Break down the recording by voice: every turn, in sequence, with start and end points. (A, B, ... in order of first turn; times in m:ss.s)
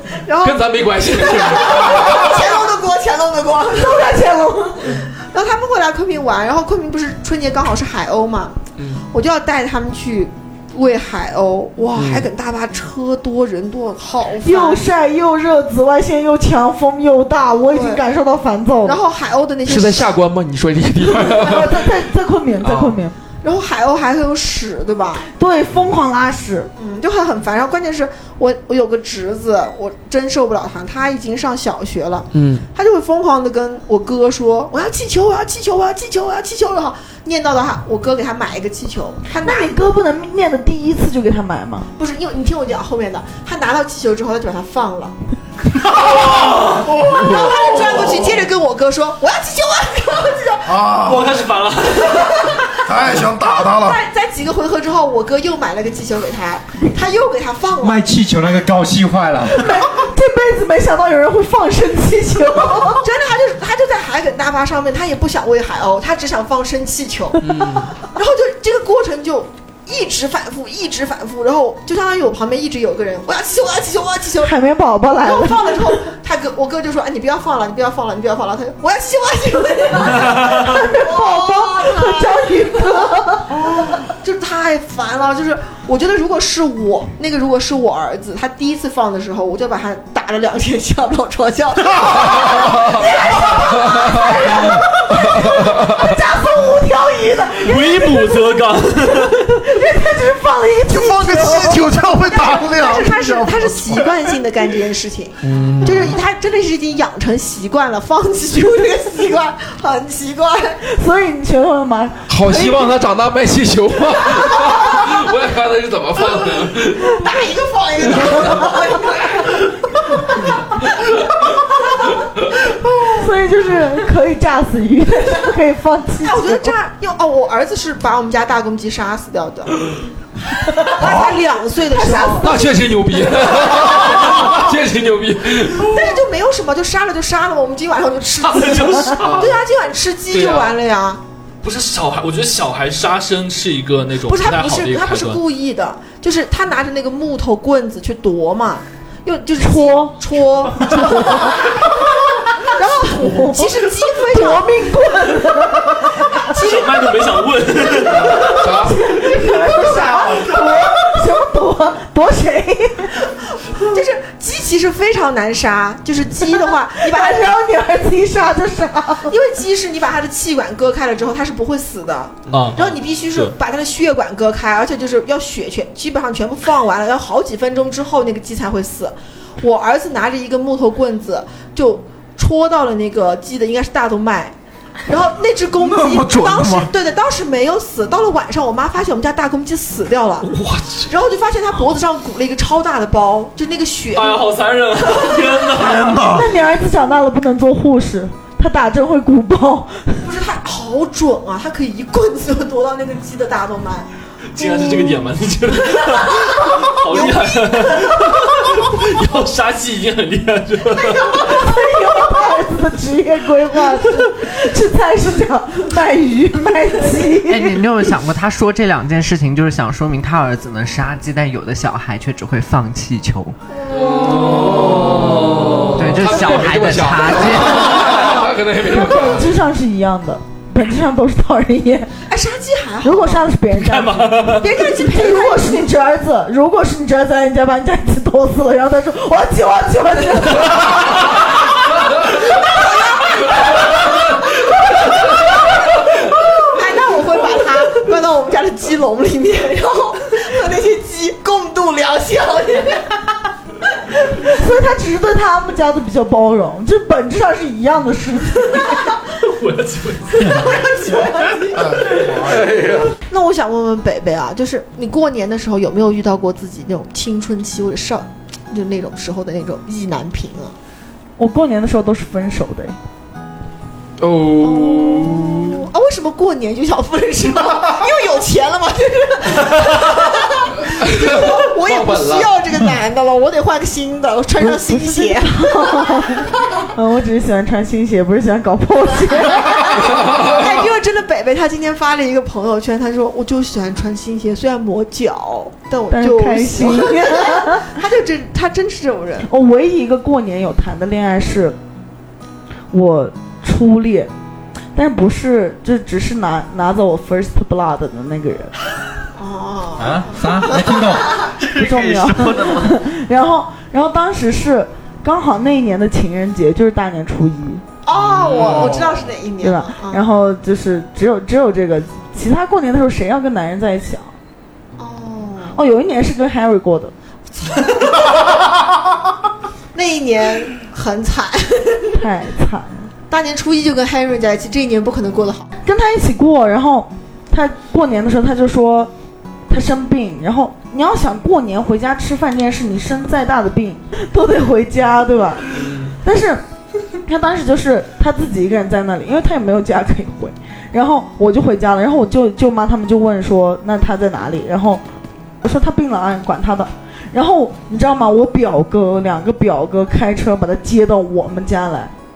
0:00.2-0:04.1 A
0:00.4-0:02.4 B
0:03.7-0:05.0 C
0:05.2-0:08.6 A
0:08.8-0:09.0 B
0:09.1-0:14.9 A
0:11.9-0:12.3 B
0:14.4-0:19.0 C
0:17.7-0:18.0 A
0:18.8-0:20.1 A
0:19.6-0:21.9 B
0:21.3-0:23.1 C
0:22.6-0:23.0 B
0:23.4-0:25.2 A
0:25.3-0:26.7 C
0:26.8-0:39.8 A
0:32.3-0:32.6 B
0:39.3-0:41.9 C
0:42.0-0:45.1 A
0:45.9-0:50.9 A
0:46.9-0:47.4 D
0:50.7-0:51.2 D
0:50.9-0:52.7 E
0:52.8-0:54.0 D
0:53.1-0:58.0 A
0:57.8-0:59.8 F
0:59.5-1:03.1 C
1:02.9-1:07.4 A
1:07.4-1:07.9 B
1:08.0-1:14.5 A
1:14.4-1:15.9 C
1:15.2-1:22.8 A
1:20.1-1:23.5 C
1:23.5-1:32.7 A
1:32.3-1:33.1 B
1:32.6-1:38.5 C
1:33.8-1:34.4 B
1:35.3-1:35.9 B
1:37.6-1:39.4 E
1:39.2-1:42.6 C
1:40.9-1:44.3 D
1:42.1-1:50.8 A
1:45.4-1:46.2 B
1:50.8-1:52.9 C
1:52.3-1:57.2 B
1:57.0-1:59.6 A
1:58.2-1:58.7 B
2:03.1-2:06.7 C
2:06.2-2:09.8 A
2:10.8-2:11.3 C
2:10.8-2:12.7 A
2:11.9-2:12.8 C
2:12.4-2:16.1 B
2:15.8-2:21.2 A
2:18.4-2:19.5 E
2:19.2-2:19.5 B
2:20.3-2:20.7 B
2:21.6-2:25.4 E
2:24.3-2:31.7 A
2:29.6-2:30.1 C
2:30.8-2:31.5 C
2:32.6-2:34.8 A
2:33.1-2:33.7 C
2:34.2-2:36.5 C
2:36.4-2:37.1 A
2:36.5-2:38.6 E
2:38.3-2:39.1 B
2:38.4-2:43.1 C
2:39.9-2:40.8 A
2:43.7-2:47.5 A
2:47.0-2:49.3 C
2:49.3-3:04.5 A
2:52.5-2:53.5 E
3:05.0-3:10.5 A
3:05.8-3:06.9 D
3:10.4-3:11.1 E
3:11.1-3:14.4 A
3:14.1-3:16.2 E
3:15.7-3:16.5 D
3:16.2-3:20.2 C
3:20.2-3:24.1 A
3:24.5-3:31.4 E
3:27.1-3:28.0 A
3:31.3-3:37.8 C
3:37.5-3:43.6 G
3:43.8-3:45.0 A
3:44.0-3:49.6 B
3:44.5-3:46.2 E
3:45.9-3:48.1 G
3:48.8-3:52.1 C
3:52.3-3:53.4 A
3:53.0-4:01.3 C
3:53.7-3:54.6 E
3:54.5-3:55.9 A
4:02.6-4:03.5 A
4:06.5-4:13.1 A
4:14.3-4:19.0 C
4:19.4-4:20.7 E
4:20.6-4:21.8 A
4:21.7-4:23.1 B
4:23.3-4:30.7 A
4:31.4-4:33.0 C
4:34.2-4:35.8 B
4:34.6-4:46.3 A
4:40.9-4:42.5 B
4:44.6-4:50.0 C
4:49.4-4:59.5 A
4:50.1-4:50.8 B
4:56.1-4:57.9 C
4:59.4-5:01.8 C
5:02.9-5:04.3 C
5:04.9-5:08.7 C
5:09.4-5:11.0 A
5:10.0-5:11.4 F
5:11.4-5:13.0 G
5:11.7-5:17.8 C
5:18.0-5:20.2 A
5:18.3-5:19.2 B
5:19.6-5:24.3 C
5:25.0-5:25.8 A
5:25.8-5:27.1 C
5:27.6-5:28.3 A
5:29.9-5:32.2 A
5:32.2-5:33.1 C
5:33.3-5:35.7 A
5:35.8-5:39.1 C
5:39.7-5:46.6 C
5:45.7-5:46.1 B
5:47.2-5:55.0 C
5:55.6-6:02.1 C